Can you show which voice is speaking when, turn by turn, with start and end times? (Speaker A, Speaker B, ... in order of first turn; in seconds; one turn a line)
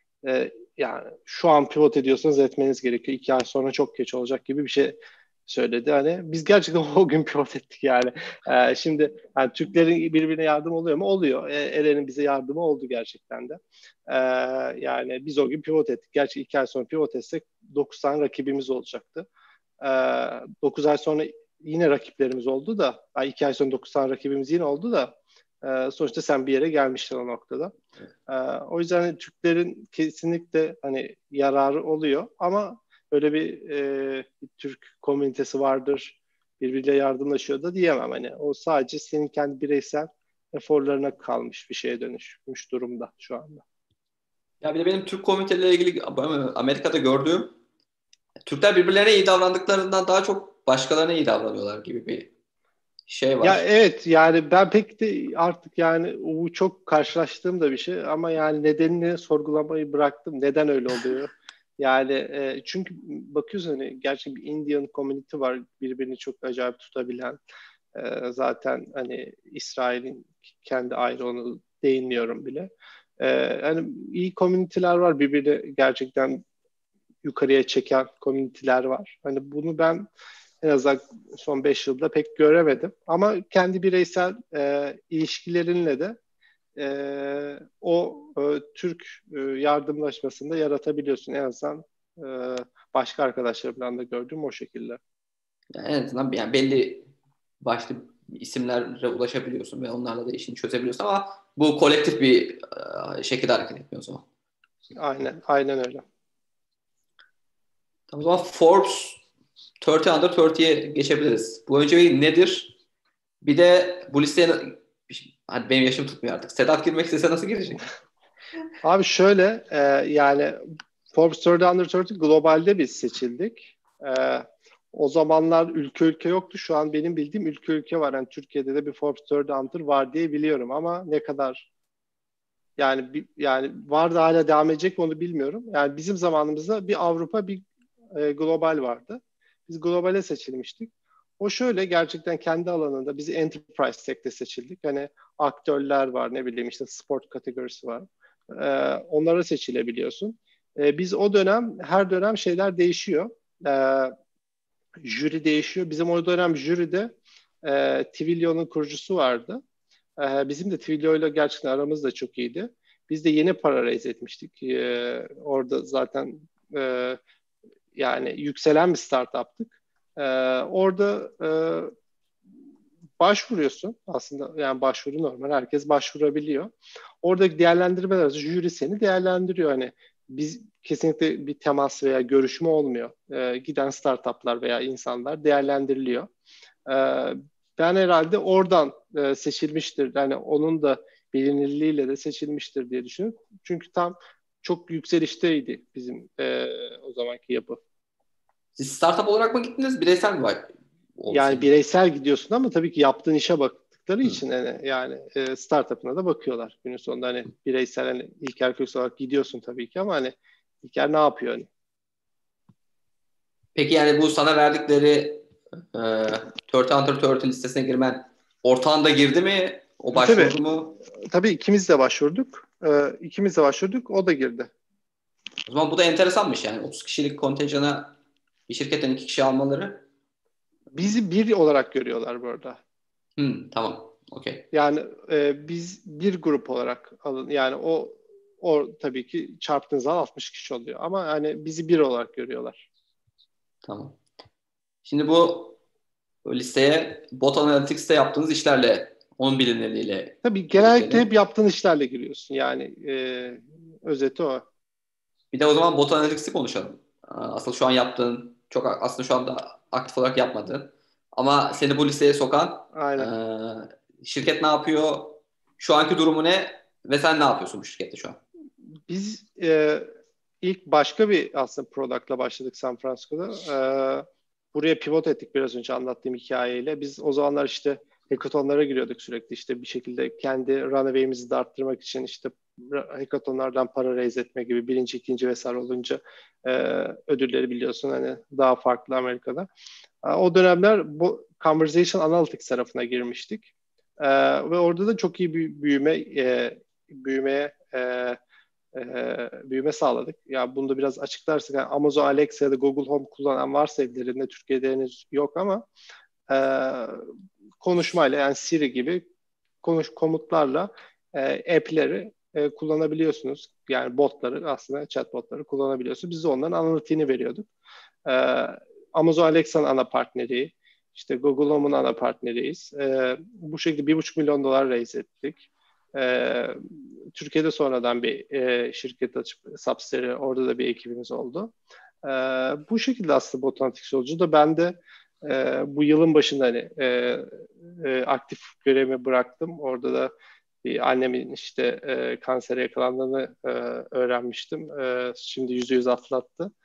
Speaker A: 0.2-19.3
Speaker A: 19.8-27.7
Speaker A: 28.3-43.6
Speaker B: 44.6-47.5
Speaker B: 48.5-52.3
Speaker B: 53.1-53.6
Speaker A: 53.4-67.4
Speaker A: 67.9-76.4
Speaker A: 77.2-80.1
Speaker A: 80.6-86.2
Speaker A: 86.8-95.0
Speaker B: 95.7-97.1
Speaker B: 97.6-104.2
Speaker A: 105.0-106.0
Speaker B: 108.1-109.2
Speaker B: 109.8-112.7
Speaker B: 113.4-117.8
Speaker A: 118.8-120.6
Speaker A: 121.1-131.7
Speaker A: 132.8-154.1
Speaker A: 155.0-159.6
Speaker A: 160.2-167.2
Speaker A: 167.9-171.9
Speaker A: 173.2-176.7
Speaker A: 177.2-186.3
Speaker A: 186.8-197.8
Speaker B: 198.8-201.7
Speaker A: 201.3-211.7
Speaker B: 213.7-220.9
Speaker A: 220.1-220.6
Speaker A: 221.1-224.7
Speaker B: 225.7-228.1
Speaker B: 228.7-230.0
Speaker A: 230.9-232.8
Speaker B: 233.4-234.7
Speaker A: 234.7-242.8
Speaker B: 243.8-244.2
Speaker B: 245.0-245.8
Speaker B: 246.4-251.3
Speaker A: 250.4-254.7
Speaker B: 255.5-268.4
Speaker A: 262.9-263.3
Speaker A: 269.1-270.1
Speaker A: 270.6-289.7
Speaker A: 290.2-298.4
Speaker A: 298.9-305.9
Speaker A: 306.5-307.2
Speaker A: 307.8-309.2
Speaker A: 309.8-317.7
Speaker A: 318.2-331.7
Speaker A: 332.2-340.3
Speaker A: 340.8-346.7